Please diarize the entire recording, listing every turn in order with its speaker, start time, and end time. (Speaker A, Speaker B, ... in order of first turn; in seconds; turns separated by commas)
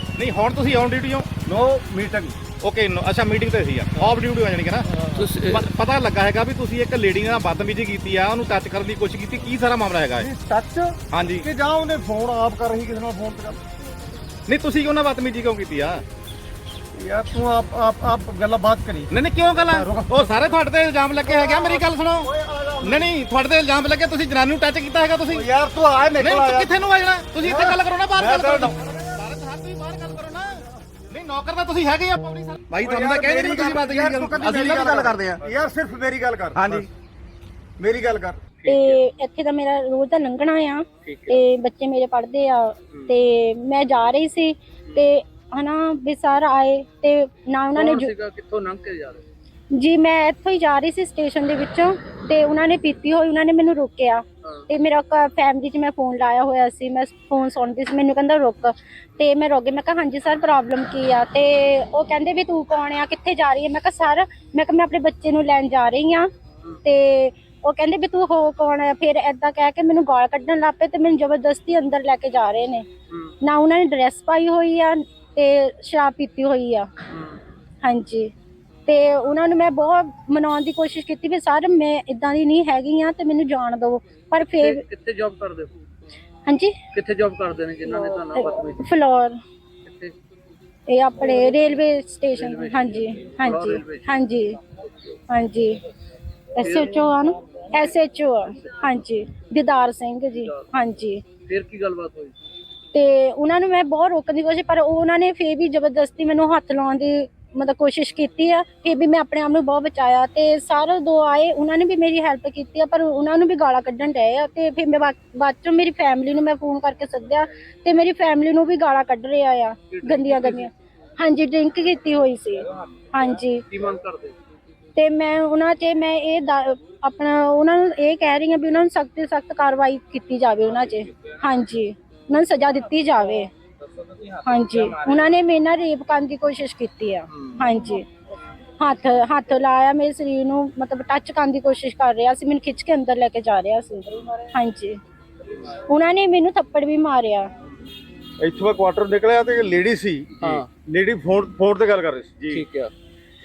Speaker A: 0.2-1.3, Speaker B: 1.5-2.4, Speaker A: 2.6-4.9, Speaker C: 5.1-5.7, Speaker A: 5.5-10.3, Speaker B: 10.2-13.6, Speaker A: 11.1-11.5, Speaker A: 14.5-16.0, Speaker B: 17.0-19.1, Speaker A: 19.1-22.3, Speaker B: 19.7-20.3, Speaker B: 21.3-23.1, Speaker A: 22.8-25.5, Speaker B: 25.3-26.7, Speaker A: 26.2-35.4, Speaker B: 27.4-29.1, Speaker B: 32.8-36.9, Speaker A: 36.5-36.9, Speaker B: 37.8-38.4, Speaker C: 38.6-39.0, Speaker D: 38.7-48.1, Speaker C: 41.0-41.4, Speaker C: 47.8-49.2, Speaker D: 49.7-66.3, Speaker D: 66.8-72.9, Speaker D: 73.4-76.9, Speaker C: 77.1-77.4, Speaker D: 77.8-78.3, Speaker D: 78.9-84.8, Speaker C: 84.5-85.7, Speaker D: 86.5-86.7, Speaker C: 86.9-88.8, Speaker D: 88.3-89.4, Speaker C: 89.8-90.2, Speaker D: 90.9-94.6, Speaker C: 92.3-94.0, Speaker D: 95.3-95.8, Speaker D: 96.5-101.2, Speaker C: 96.6-97.1, Speaker C: 101.5-102.3, Speaker D: 102.9-123.6, Speaker C: 119.9-120.7, Speaker C: 122.7-123.0, Speaker C: 123.7-124.3, Speaker D: 125.0-133.5, Speaker C: 134.3-135.0, Speaker D: 134.4-138.1, Speaker C: 137.3-137.6, Speaker D: 138.8-145.0, Speaker D: 145.9-147.5, Speaker B: 148.4-152.4, Speaker C: 150.4-150.7, Speaker C: 152.5-152.9